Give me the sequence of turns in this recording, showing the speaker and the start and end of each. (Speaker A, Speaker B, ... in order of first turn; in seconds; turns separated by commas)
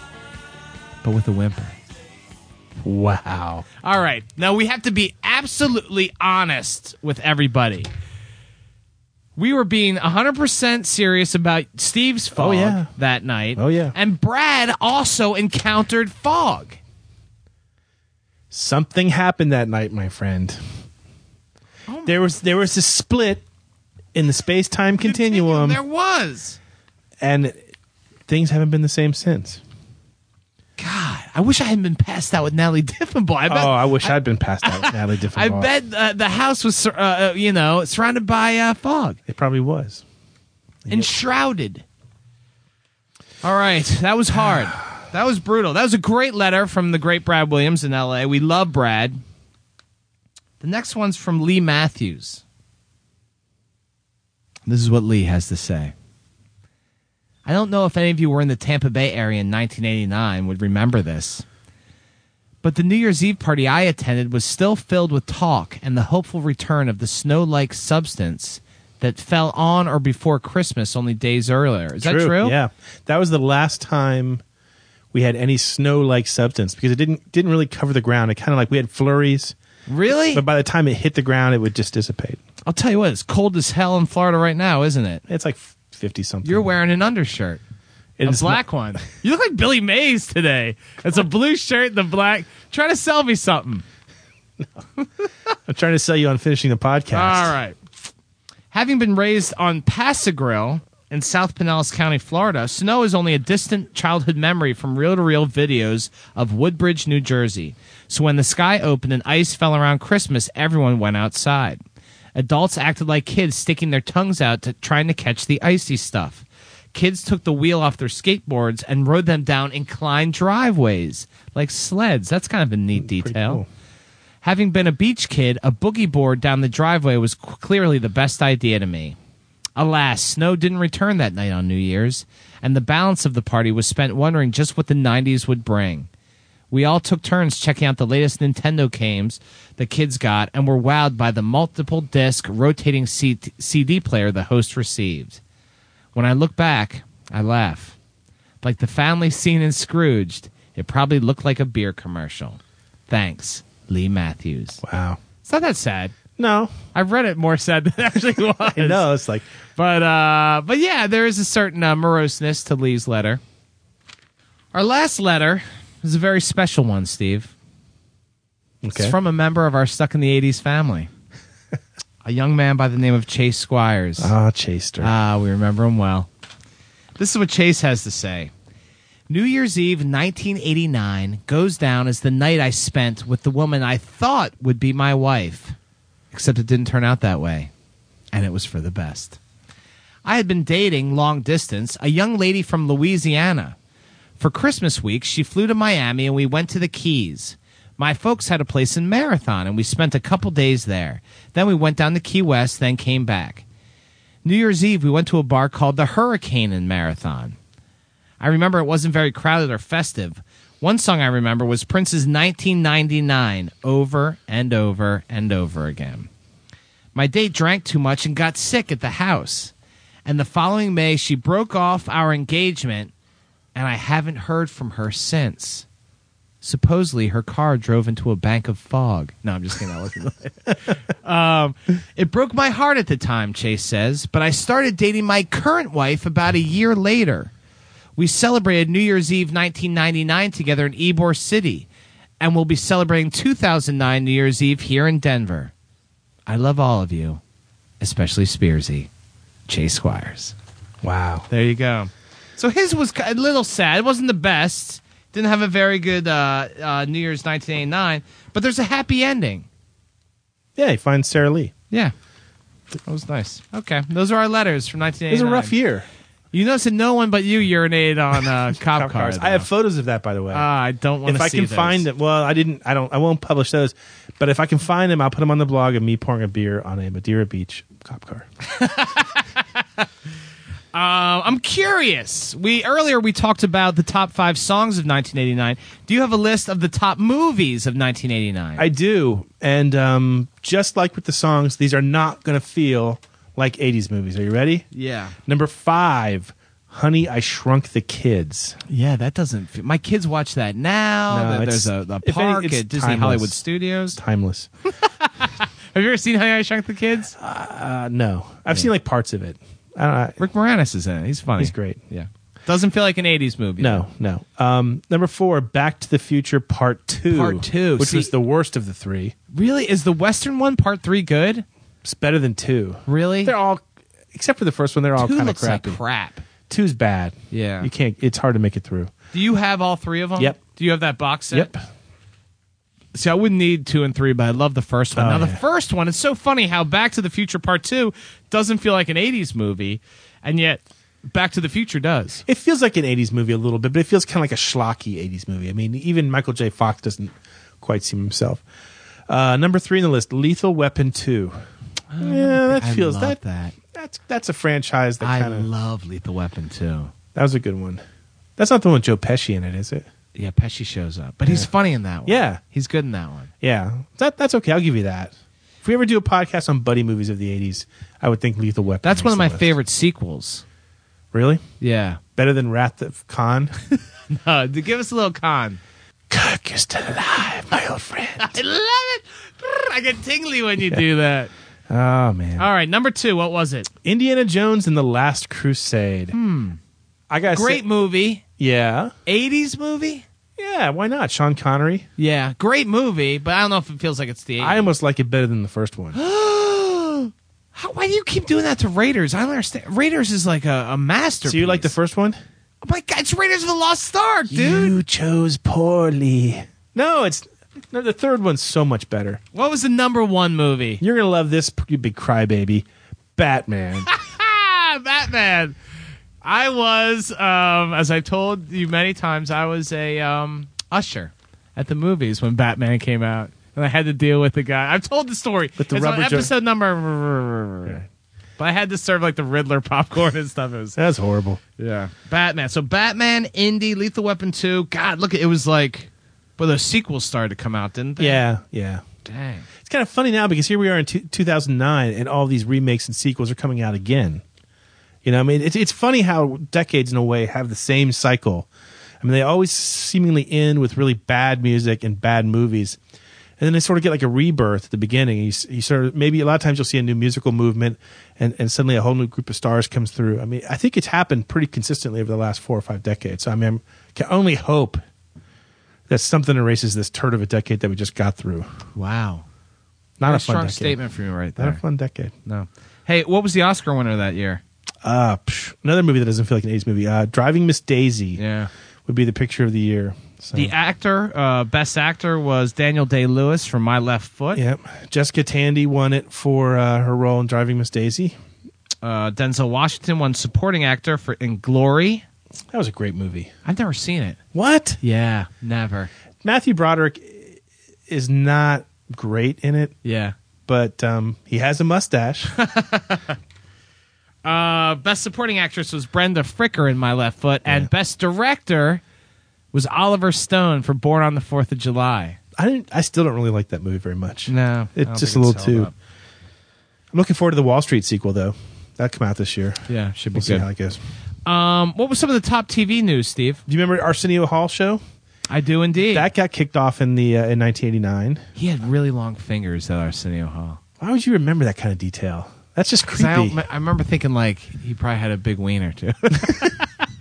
Speaker A: 1.0-1.7, Speaker B: 2.8-3.6, Speaker A: 3.8-7.9, Speaker A: 9.3-16.8, Speaker B: 12.3-12.9, Speaker B: 13.6-13.9, Speaker B: 18.5-20.6, Speaker A: 21.9-22.2, Speaker B: 22.0-23.4, Speaker B: 24.1-25.8, Speaker A: 25.0-26.6, Speaker B: 27.2-27.6, Speaker B: 28.3-29.6, Speaker A: 30.8-39.2, Speaker B: 33.5-35.7, Speaker B: 39.3-40.0, Speaker B: 40.8-41.1, Speaker A: 40.9-41.8, Speaker A: 43.4-49.2, Speaker A: 50.6-52.4, Speaker A: 54.7-55.9, Speaker A: 57.5-61.4, Speaker A: 62.6-72.6, Speaker B: 72.0-74.4, Speaker B: 75.1-79.5, Speaker A: 79.9-80.4, Speaker B: 80.3-82.4, Speaker A: 82.7-85.2, Speaker B: 85.3-86.7, Speaker A: 86.4-87.6, Speaker B: 88.2-88.6, Speaker A: 88.2-93.8, Speaker B: 95.7-97.5, Speaker A: 97.1-97.8, Speaker A: 98.7-111.8, Speaker A: 112.3-123.6, Speaker B: 122.9-123.7, Speaker A: 124.4-129.2, Speaker A: 129.8-136.1, Speaker A: 136.7-145.4, Speaker A: 146.1-147.9, Speaker A: 148.6-154.8, Speaker B: 154.8-155.2, Speaker A: 155.4-156.1, Speaker B: 156.4-156.8, Speaker A: 156.9-159.1, Speaker B: 158.6-159.5, Speaker A: 159.8-163.4, Speaker A: 164.7-167.5, Speaker B: 168.8-169.2, Speaker A: 168.9-171.1, Speaker A: 172.2-174.3, Speaker B: 174.2-175.1, Speaker A: 175.0-176.3, Speaker A: 177.2-178.5, Speaker A: 179.3-185.8, Speaker A: 186.3-187.7, Speaker A: 188.3-189.4, Speaker A: 190.2-193.8, Speaker A: 194.4-203.6, Speaker A: 204.4-207.6, Speaker A: 208.4-216.3, Speaker A: 217.1-219.7, Speaker A: 220.2-223.1, Speaker A: 223.7-225.8, Speaker A: 226.6-237.5, Speaker A: 238.2-241.9, Speaker A: 242.4-245.7, Speaker A: 246.5-247.4, Speaker A: 248.0-249.1, Speaker A: 249.7-250.5, Speaker B: 251.0-251.5, Speaker A: 251.5-259.7, Speaker B: 260.8-261.7, Speaker A: 263.0-265.8, Speaker B: 265.3-266.1, Speaker A: 266.5-269.7, Speaker B: 268.8-270.7, Speaker A: 270.5-272.0, Speaker B: 271.2-278.5, Speaker A: 278.6-280.0, Speaker A: 280.9-288.9, Speaker B: 288.8-294.9, Speaker A: 294.9-295.4, Speaker B: 295.4-298.8, Speaker A: 298.9-304.2, Speaker B: 301.3-303.6, Speaker B: 304.1-304.7, Speaker A: 305.0-307.3, Speaker B: 307.4-310.4, Speaker A: 310.4-314.0, Speaker B: 311.6-312.0, Speaker B: 313.8-319.3, Speaker A: 317.3-318.3, Speaker A: 319.5-321.6, Speaker B: 322.0-323.8, Speaker A: 323.1-323.6, Speaker B: 324.3-326.0, Speaker A: 325.2-326.4, Speaker B: 326.7-329.1, Speaker A: 327.5-327.9, Speaker A: 329.3-331.7, Speaker B: 331.5-331.8, Speaker A: 333.1-342.4, Speaker B: 335.1-335.6, Speaker B: 342.4-348.6, Speaker B: 349.3-351.6, Speaker A: 352.1-353.7, Speaker B: 352.2-355.7, Speaker A: 355.2-357.1, Speaker B: 357.3-358.0, Speaker B: 358.6-360.1, Speaker A: 360.3-363.5, Speaker B: 362.2-362.6, Speaker B: 363.6-369.7, Speaker A: 369.0-370.6, Speaker B: 371.3-371.6, Speaker A: 371.8-372.2, Speaker B: 372.4-373.8, Speaker A: 374.3-375.8, Speaker B: 376.3-378.6, Speaker A: 378.4-381.5, Speaker B: 381.9-382.7, Speaker A: 382.6-383.9, Speaker B: 384.0-386.4, Speaker A: 386.3-386.8, Speaker B: 387.3-387.8, Speaker A: 387.5-388.4, Speaker B: 388.6-389.1, Speaker A: 389.2-390.2, Speaker B: 390.6-392.1, Speaker A: 392.2-394.9, Speaker B: 394.6-396.2, Speaker A: 396.1-401.9, Speaker B: 401.4-402.4, Speaker A: 402.8-404.9, Speaker B: 404.5-409.4, Speaker A: 409.5-411.0, Speaker B: 411.0-414.1, Speaker A: 414.1-415.8, Speaker A: 416.4-428.0, Speaker B: 425.8-426.5, Speaker A: 428.6-431.0, Speaker B: 430.9-431.6, Speaker A: 431.8-438.4, Speaker B: 438.2-439.0, Speaker A: 439.2-439.7, Speaker B: 439.8-444.4, Speaker B: 445.2-448.7, Speaker B: 449.2-453.0, Speaker B: 453.6-465.0, Speaker B: 466.1-468.7, Speaker A: 468.9-469.4, Speaker B: 470.2-471.0, Speaker A: 470.2-471.8, Speaker B: 471.6-472.3, Speaker A: 472.4-474.6, Speaker B: 475.0-478.4, Speaker A: 478.4-478.7, Speaker B: 479.1-480.7, Speaker A: 480.5-484.6, Speaker B: 484.5-488.4, Speaker A: 489.0-492.2, Speaker B: 492.7-493.5, Speaker A: 493.6-494.4, Speaker B: 494.5-495.0, Speaker A: 495.0-496.1, Speaker B: 496.4-500.0, Speaker A: 500.0-500.3, Speaker B: 500.6-502.6, Speaker A: 502.6-503.4, Speaker A: 504.4-509.0, Speaker A: 509.7-512.4, Speaker B: 512.5-515.9, Speaker A: 514.5-515.9, Speaker B: 517.1-521.0, Speaker A: 519.9-520.7, Speaker A: 521.5-523.6, Speaker B: 523.7-525.0, Speaker A: 525.5-526.3, Speaker B: 526.0-528.5, Speaker A: 528.6-530.8, Speaker B: 531.0-533.6, Speaker A: 533.1-537.1